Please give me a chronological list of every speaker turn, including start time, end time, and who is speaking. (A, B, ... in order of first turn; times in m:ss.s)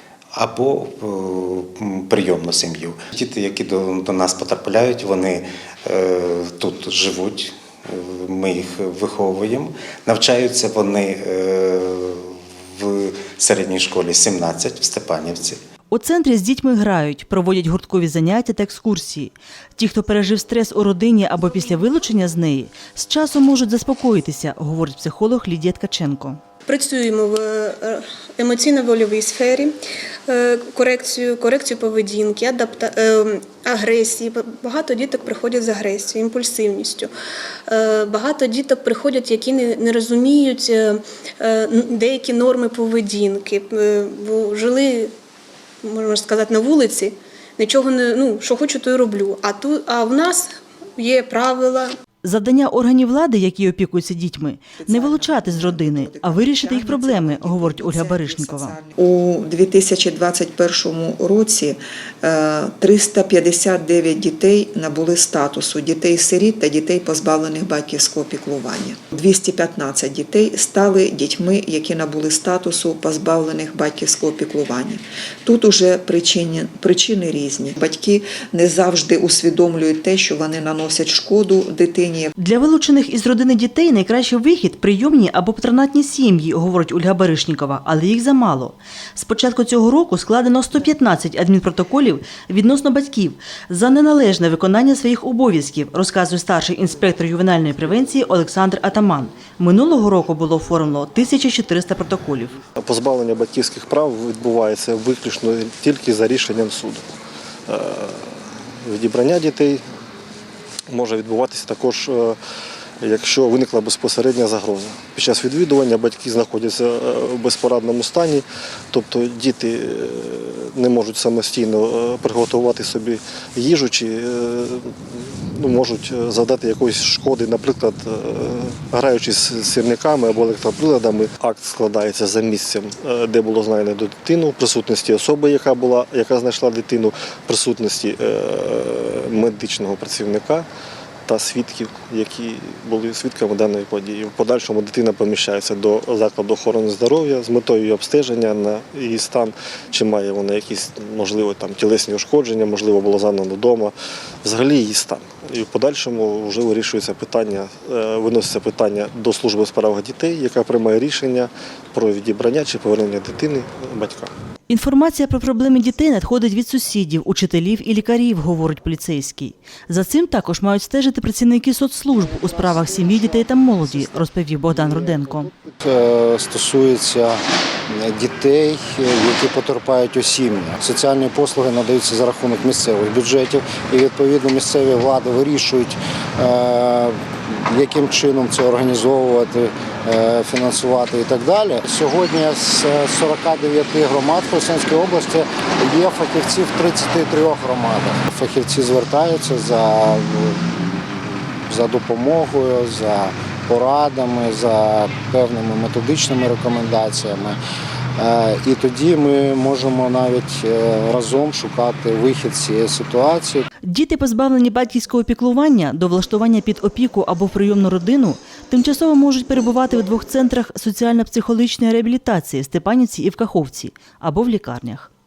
0:00.4-0:15.6 A
0:15.9-0:26.4 B
0:26.7-0:29.8 C
0:30.3-0:37.1 C
0:37.7-0:45.1 C
0:45.8-0:51.9 C
0:52.2-0:58.8 B
0:54.8-1:22.3 D
1:22.4-1:42.6 B
1:42.8-1:47.0 E
1:47.7-1:48.3 E
1:48.8-1:49.8 E
1:50.9-1:52.4 E
1:53.0-2:04.9 E
2:05.5-2:20.7 E
2:21.3-2:33.9 E
2:34.4-2:44.3 E
2:44.7-2:55.5 B
2:52.2-3:27.6 F
3:28.2-3:33.7 F
3:33.9-3:45.1 B